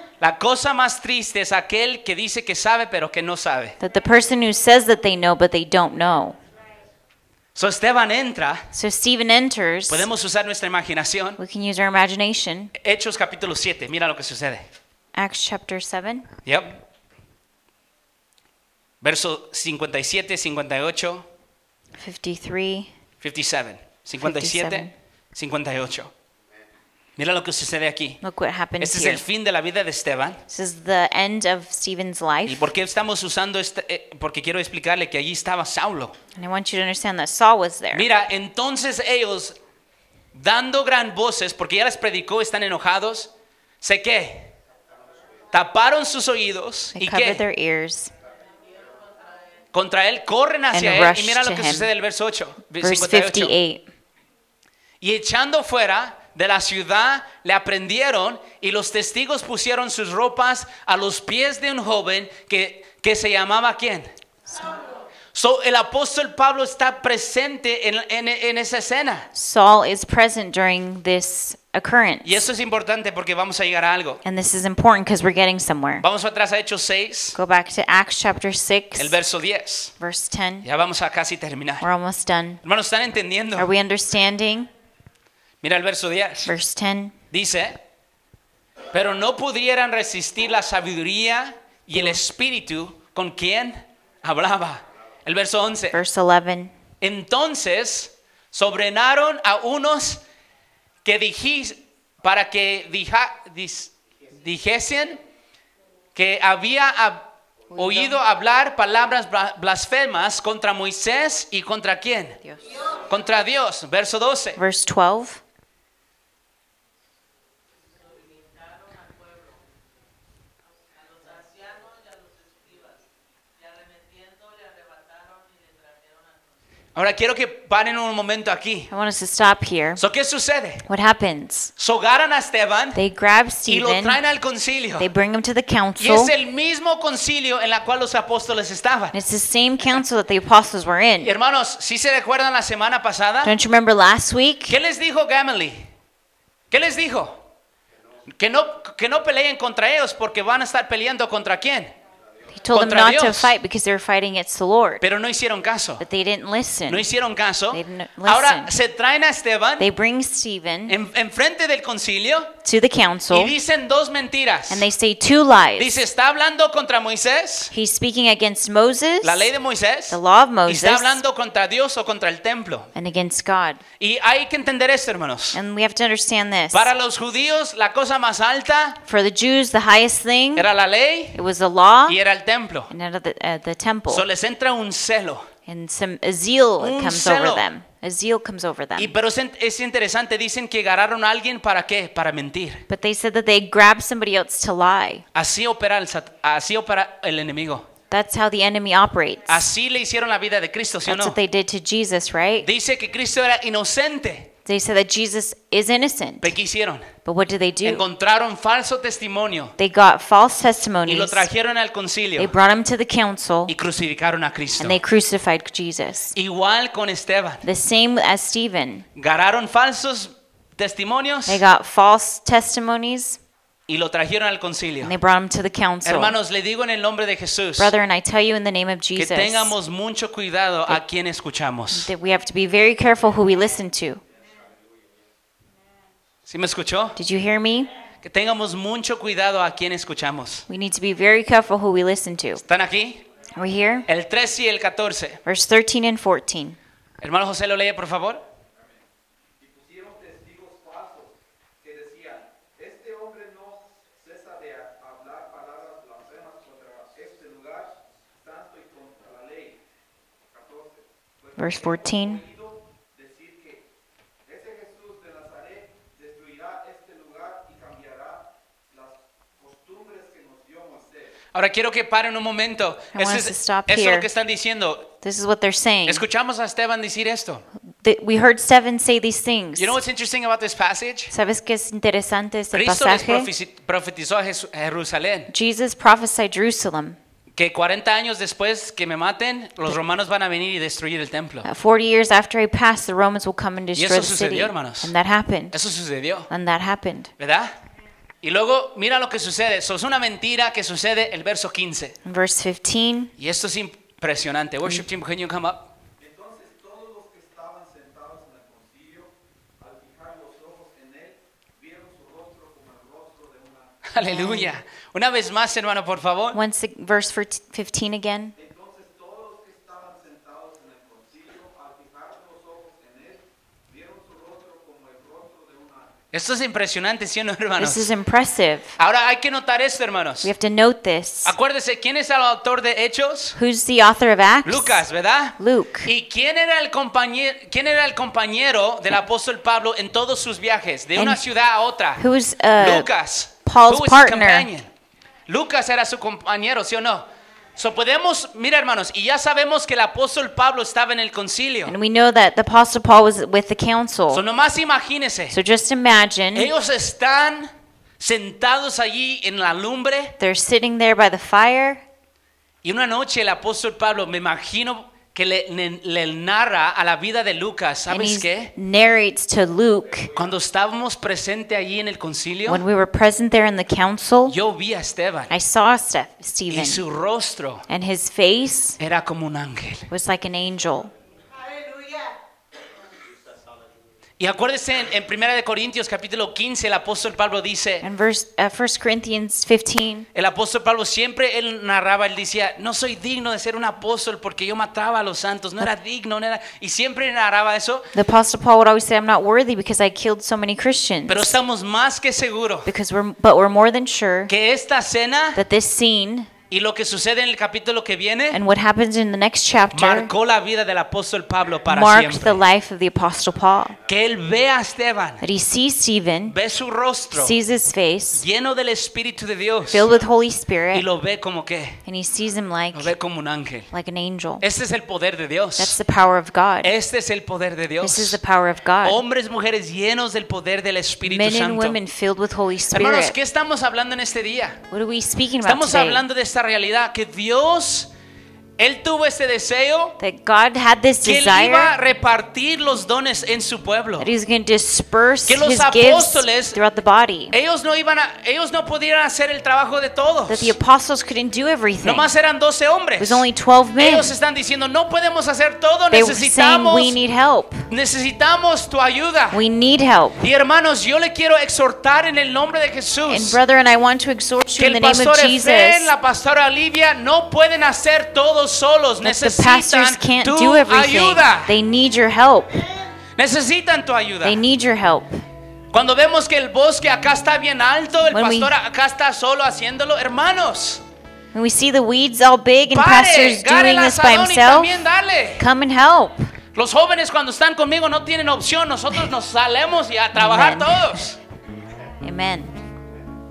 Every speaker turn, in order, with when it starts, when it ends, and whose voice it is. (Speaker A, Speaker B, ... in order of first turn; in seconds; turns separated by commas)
Speaker A: 0.2-3.8, Speaker B: 3.8-6.4, Speaker A: 7.5-8.7, Speaker B: 8.7-10.1, Speaker A: 9.9-11.4, Speaker B: 11.4-12.7, Speaker A: 12.8-14.7, Speaker B: 15.2-16.3, Speaker A: 16.4-16.8, Speaker A: 19.0-21.3, Speaker B: 22.0-22.9, Speaker A: 23.2-26.1, Speaker B: 24.2-24.9, Speaker A: 27.2-28.2, Speaker B: 28.2-29.2, Speaker A: 28.8-30.4, Speaker B: 30.5-32.7, Speaker A: 32.5-36.2, Speaker B: 36.4-38.1, Speaker A: 37.9-39.6, Speaker A: 40.3-43.3, Speaker A: 43.8-44.5, Speaker A: 45.5-47.4, Speaker B: 47.0-48.1, Speaker A: 49.7-53.5, Speaker B: 50.7-51.9, Speaker B: 52.8-53.9, Speaker A: 55.0-64.1, Speaker A: 65.3-69.3, Speaker B: 69.3-72.5, Speaker A: 72.2-74.2, Speaker B: 74.2-76.0, Speaker A: 76.0-77.4, Speaker B: 77.3-79.2, Speaker A: 79.0-79.9, Speaker B: 80.0-80.7, Speaker A: 80.6-81.8, Speaker B: 81.8-82.6, Speaker A: 82.6-83.7, Speaker B: 83.6-84.7, Speaker A: 85.6-86.5, Speaker B: 86.5-87.2, Speaker A: 87.3-87.8, Speaker A: 88.9-96.0, Speaker B: 95.9-96.7, Speaker A: 97.0-100.2, Speaker A: 101.0-105.2, Speaker A: 106.2-112.4, Speaker B: 107.7-108.2, Speaker A: 113.1-114.6, Speaker B: 114.6-115.4, Speaker A: 127.0-128.9, Speaker B: 128.9-130.0, Speaker A: 130.0-130.9, Speaker B: 130.9-131.7, Speaker A: 131.8-133.0, Speaker B: 132.9-134.2, Speaker A: 133.7-135.1, Speaker B: 135.0-136.3, Speaker A: 136.0-139.2, Speaker B: 139.1-141.3, Speaker A: 141.2-143.6, Speaker B: 143.4-144.8, Speaker A: 144.7-145.9, Speaker A: 146.7-147.4, Speaker A: 148.3-151.9, Speaker B: 152.5-155.0, Speaker A: 152.7-153.5, Speaker A: 155.0-156.0, Speaker B: 156.0-157.1, Speaker A: 156.9-159.9, Speaker B: 157.7-158.7, Speaker B: 159.8-161.0, Speaker A: 160.9-162.5, Speaker B: 162.6-163.5, Speaker A: 163.3-164.8, Speaker B: 164.7-166.0, Speaker A: 165.8-167.7, Speaker B: 167.7-169.5, Speaker A: 169.2-172.9, Speaker B: 170.1-171.2, Speaker B: 172.9-173.8, Speaker A: 174.0-175.6, Speaker B: 175.5-176.9, Speaker A: 176.7-179.0, Speaker B: 179.1-180.7, Speaker A: 180.6-181.4, Speaker B: 181.3-182.2, Speaker A: 182.1-182.9, Speaker B: 182.9-184.2, Speaker A: 184.1-185.5, Speaker B: 185.7-189.1, Speaker A: 186.8-187.7, Speaker A: 189.0-192.9, Speaker B: 192.9-195.2, Speaker A: 195.3-197.9, Speaker B: 198.1-199.7, Speaker A: 199.5-201.4, Speaker B: 201.1-202.7, Speaker A: 202.6-204.5, Speaker B: 204.7-206.5, Speaker A: 206.4-207.1, Speaker B: 207.2-208.0, Speaker A: 207.8-209.7, Speaker B: 209.8-211.5, Speaker A: 211.1-212.6, Speaker B: 212.4-213.7, Speaker A: 213.7-215.0, Speaker B: 214.8-216.3, Speaker A: 216.3-217.7, Speaker B: 217.7-219.1, Speaker A: 219.2-221.6, Speaker B: 221.5-223.4, Speaker A: 223.9-225.1, Speaker B: 225.0-226.3, Speaker A: 226.0-227.9, Speaker B: 227.8-229.8, Speaker A: 229.2-232.1, Speaker B: 231.9-234.2, Speaker A: 236.5-237.2, Speaker B: 237.2-237.9, Speaker A: 238.2-240.7, Speaker B: 240.7-242.6, Speaker A: 242.6-243.2, Speaker B: 243.6-244.1, Speaker A: 244.1-245.4, Speaker B: 245.4-246.8, Speaker A: 247.2-248.4, Speaker C: 249.6-259.8, Speaker C: 260.5-263.9, Speaker B: 261.6-262.4, Speaker C: 264.4-271.4, Speaker A: 271.5-275.1, Speaker B: 273.1-274.3, Speaker B: 275.2-276.2, Speaker A: 276.1-277.6, Speaker B: 278.0-280.0, Speaker A: 279.8-281.3, Speaker B: 281.3-283.5, Speaker A: 282.7-285.5, Speaker B: 285.5-287.2, Speaker A: 287.6-291.7, Speaker B: 291.6-295.8, Speaker A: 294.0-295.1, Speaker A: 295.7-296.5, Speaker B: 296.5-297.3, Speaker A: 297.4-297.8, Speaker A: 298.4-302.2, Speaker B: 302.2-303.3, Speaker A: 303.4-305.9, Speaker C: 306.2-314.1, Speaker A: 314.1-316.6, Speaker B: 314.2-314.8, Speaker B: 316.5-318.5, Speaker C: 318.6-326.2, Speaker A: 326.3-328.1, Speaker B: 327.8-329.0, Speaker A: 329.0-330.5, Speaker B: 330.4-331.5, Speaker A: 331.4-333.6, Speaker B: 333.6-335.1, Speaker A: 334.6-342.2, Speaker B: 335.6-336.1, Speaker B: 342.2-343.1, Speaker A: 342.8-344.9, Speaker B: 343.6-344.7, Speaker A: 345.5-352.0, Speaker B: 351.9-354.4, Speaker A: 354.3-355.6, Speaker B: 355.5-356.7, Speaker A: 356.6-360.4, Speaker B: 360.4-362.0, Speaker A: 362.8-368.7, Speaker B: 368.1-370.3, Speaker A: 370.3-372.8, Speaker B: 372.7-374.6, Speaker A: 374.5-375.5, Speaker B: 375.5-377.0, Speaker A: 376.7-377.9, Speaker B: 377.9-379.0, Speaker A: 379.0-380.1, Speaker B: 380.1-381.1, Speaker A: 384.4-388.1, Speaker B: 388.0-390.3, Speaker A: 390.4-398.1, Speaker B: 398.1-401.6, Speaker A: 401.3-402.9, Speaker B: 402.9-404.5, Speaker A: 404.5-405.6, Speaker B: 405.6-406.5, Speaker A: 406.7-408.6, Speaker B: 408.5-410.3, Speaker A: 409.9-412.6, Speaker B: 411.9-414.0, Speaker A: 414.1-415.4, Speaker B: 415.4-416.6, Speaker A: 416.5-417.6, Speaker B: 417.3-418.4, Speaker A: 418.4-420.1, Speaker B: 419.9-421.1, Speaker A: 420.9-422.0, Speaker B: 422.1-423.1, Speaker A: 422.9-423.9, Speaker B: 423.9-424.6, Speaker A: 424.6-426.0, Speaker B: 425.8-426.9, Speaker A: 426.8-428.4, Speaker B: 428.0-429.2, Speaker A: 429.0-432.0, Speaker B: 431.2-433.4, Speaker A: 432.9-434.8, Speaker B: 434.9-436.2, Speaker A: 435.6-438.1, Speaker A: 438.8-440.2, Speaker B: 440.2-441.9, Speaker A: 441.2-444.3, Speaker B: 444.2-447.6, Speaker A: 445.5-446.8, Speaker A: 447.5-450.8, Speaker B: 450.5-452.3, Speaker A: 452.0-453.5, Speaker B: 453.2-454.3, Speaker A: 454.0-457.2, Speaker B: 456.1-457.9, Speaker A: 457.9-459.6, Speaker B: 459.5-460.4, Speaker A: 460.4-463.6, Speaker B: 463.3-466.1, Speaker A: 464.8-471.7, Speaker B: 469.2-472.8, Speaker A: 473.4-474.6, Speaker B: 474.4-475.4, Speaker A: 475.9-481.0, Speaker B: 478.3-478.7, Speaker B: 481.5-486.5, Speaker A: 482.9-485.6, Speaker A: 486.8-491.4, Speaker B: 490.3-491.2, Speaker B: 492.2-492.8